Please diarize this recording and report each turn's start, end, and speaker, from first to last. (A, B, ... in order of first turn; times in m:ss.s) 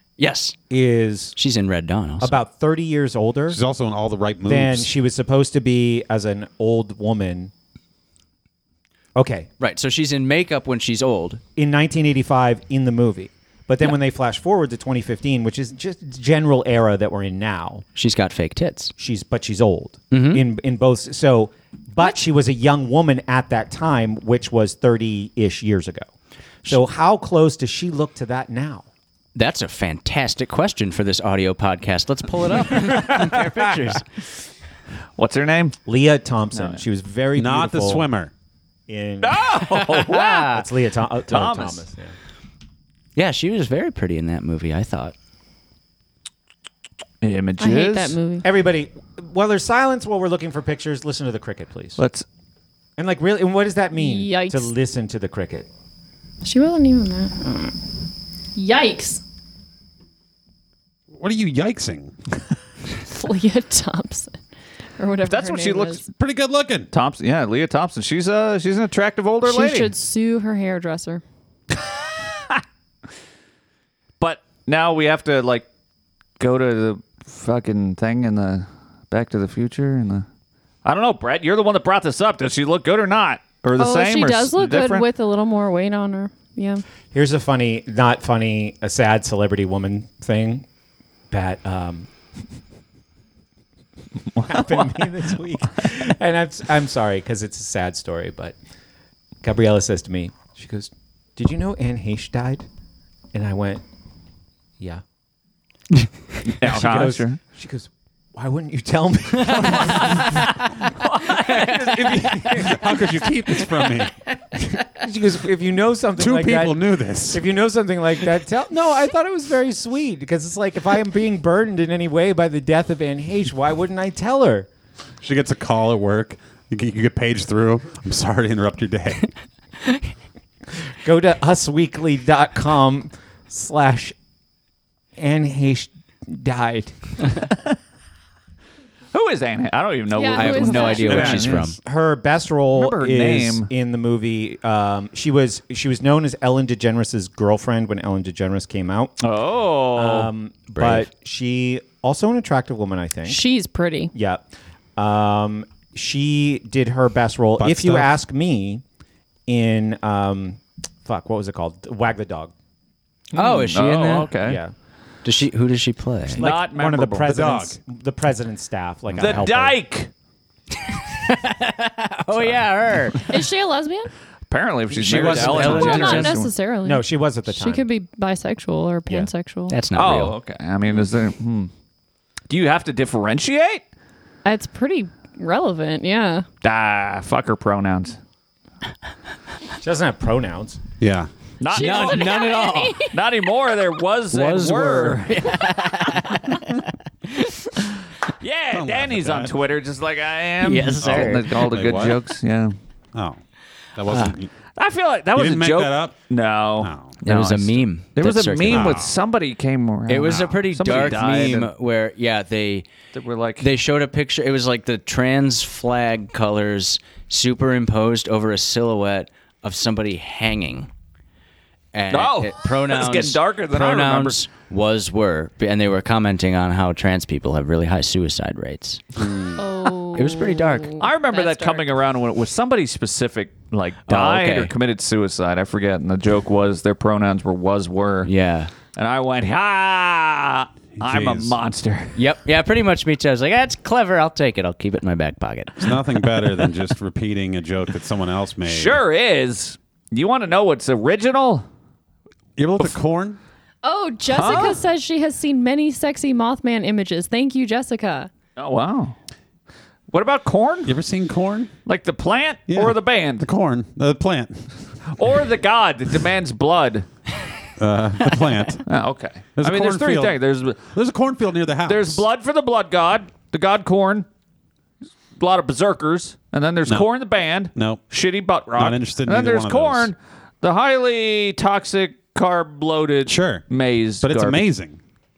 0:00.2-0:00.6 A
0:00.7-0:01.4 B
0:01.4-0:02.3 A
0:02.2-0:03.6 B
0:03.5-0:04.9 C
0:04.5-0:07.5 B
0:09.1-0:09.5 B
0:09.6-0:11.4 A
0:11.6-0:17.8 B
0:18.0-0:18.9 A
0:19.0-0:26.1 B
0:20.1-0:20.4 A
0:26.6-0:28.8 B
0:29.3-0:34.0 A
0:32.8-0:33.2 D
0:35.2-0:35.8 D
0:35.9-0:38.1 B
0:36.5-0:36.8 D
0:37.3-0:38.3 C
0:38.9-0:39.4 B
0:39.2-0:40.5 D
0:39.7-0:40.6 A
0:40.5-0:42.1 B
0:41.3-0:41.8 D
0:43.2-0:45.1 A
0:47.2-0:48.2 D
0:47.6-0:48.4 E
0:48.4-0:52.0 B
0:52.0-0:52.2 D
0:53.0-0:55.7 B
0:54.0-0:54.7 E
0:56.4-0:57.7 E
0:58.6-0:59.2 E
1:01.1-1:02.1 C
1:03.0-1:04.4 E
1:05.0-1:06.0 E
1:05.3-1:06.0 D
1:06.2-1:06.9 C
1:06.9-1:09.9 D
1:09.4-1:11.2 E
1:14.2-1:15.6 D
1:16.4-1:20.2 D
1:20.8-1:25.0 D
1:23.8-1:26.8 E
1:27.1-1:30.6 B
1:31.3-1:32.1 B
1:34.4-1:35.1 D
1:34.4-1:38.6 B
1:39.4-1:42.7 B
1:43.3-1:43.8 B
1:46.4-1:47.4 D
1:46.6-1:50.5 B
1:49.8-1:50.2 D
1:50.9-1:52.9 D
1:51.5-1:52.2 A
1:51.7-1:52.8 B
1:52.5-1:54.1 C
1:54.8-2:04.7 B
1:56.2-1:57.4 C
2:05.2-2:09.3 C
2:11.0-2:14.1 B
2:15.2-2:17.4 B
2:19.1-2:21.6 D
2:20.1-2:21.4 E
2:20.3-2:21.8 A
2:21.1-2:21.7 C
2:21.4-2:29.2 B
2:22.7-2:23.7 D
2:29.2-2:30.3 D
2:29.9-2:33.4 B
2:30.7-2:31.1 A
2:33.2-2:34.1 E
2:34.1-2:38.8 B
2:37.6-2:38.2 C
2:39.5-2:42.5 B
2:43.3-2:44.6 D
2:43.3-2:44.3 A
2:44.4-2:44.7 B
2:45.2-2:46.5 A
2:46.3-2:49.8 B
2:46.4-2:47.3 D
2:47.2-2:47.8 C
2:49.1-2:49.4 A
2:49.2-2:50.1 D
2:51.1-2:53.2 A
2:53.3-2:54.1 E
2:54.5-2:56.5 D
2:55.0-2:56.0 C
2:55.1-2:56.4 A
2:55.2-2:55.8 B
2:55.6-2:59.8 E
2:56.8-2:57.8 B
2:59.7-3:00.3 A
2:59.9-3:01.7 D
3:02.5-3:03.8 D
3:04.4-3:06.4 E
3:06.6-3:08.2 D
3:09.8-3:10.8 B
3:11.0-3:11.3 C
3:11.6-3:12.5 D
3:11.7-3:13.1 E
3:11.7-3:13.0 A
3:13.1-3:15.7 D
3:14.3-3:16.8 A
3:18.4-3:22.7 D
3:18.7-3:19.5 C
3:20.6-3:21.5 A
3:21.0-3:22.2 C
3:23.1-3:23.4 C
3:24.0-3:24.5 C
3:24.8-3:31.7 D
3:25.3-3:26.2 C
3:26.8-3:27.1 C
3:27.2-3:29.0 A
3:28.7-3:29.1 C
3:30.1-3:32.8 A
3:33.1-3:33.7 D
3:33.6-3:40.9 A
3:41.9-3:49.0 A
3:42.1-3:44.4 D
3:49.2-3:49.6 C
3:49.6-3:51.9 E
3:50.1-3:50.9 A
3:51.0-3:58.3 D
3:54.1-3:54.7 A
3:58.2-3:58.7 A
3:58.9-4:02.1 D
4:01.0-4:01.6 C
4:02.2-4:05.9 A
4:05.8-4:09.0 C
4:08.6-4:11.6 D
4:12.6-4:13.4 C
4:13.8-4:18.3 E
4:14.3-4:14.8 D
4:18.6-4:19.2 D
4:20.1-4:20.9 D
4:20.8-4:21.7 C
4:21.8-4:23.5 D
4:22.7-4:24.7 C
4:25.1-4:27.0 D
4:27.8-4:28.8 C
4:28.9-4:30.8 D
4:29.6-4:32.2 C
4:31.9-4:34.3 D
4:35.4-4:44.6 D
4:37.7-4:38.0 C
4:38.7-4:40.1 C
4:43.2-4:43.6 C
4:44.2-4:45.0 C